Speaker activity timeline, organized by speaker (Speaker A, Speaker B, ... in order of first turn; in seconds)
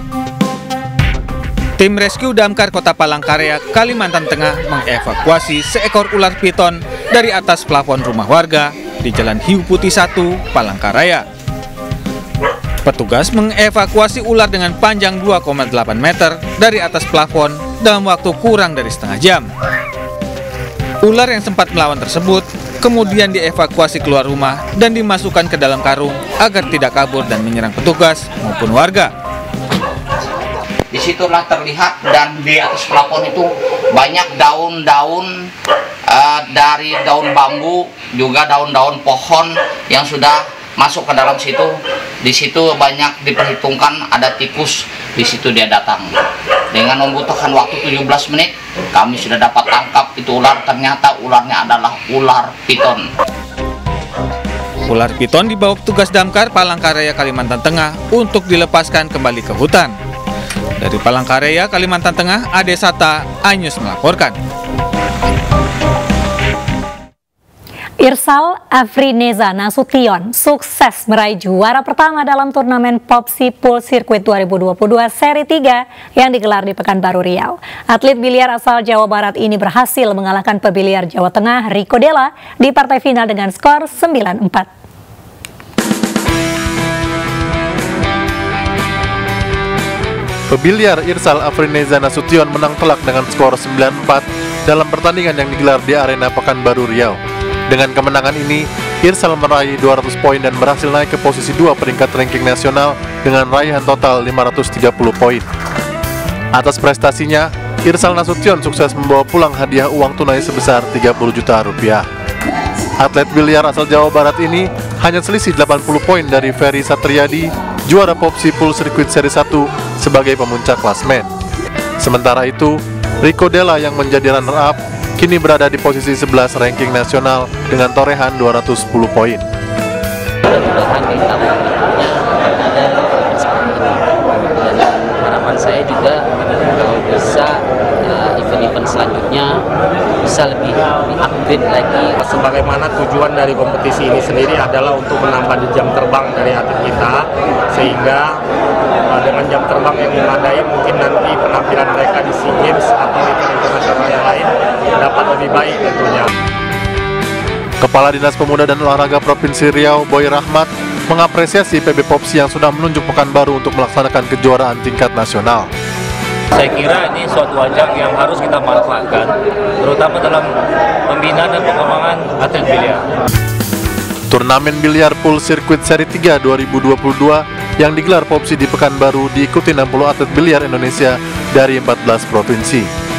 Speaker A: 1.8-11.2, 12.8-19.5, 21.0-29.1, 54.9-59.9, 60.8-64.3
Speaker B: 30.9-35.3, 36.1-41.7, 42.2-46.1, 46.7-53.0
Speaker C: 68.0-84.7
Speaker D: 90.5-105.5, 106.5-112.0, 113.0-121.3, 122.0-129.4, 157.8-165.7, 174.3-182.9
Speaker E: 130.5-139.6, 140.2-142.2
Speaker F: 142.2-148.3, 149.1-156.3
Speaker G: 166.7-169.2, 169.9-170.4, 171.2-172.9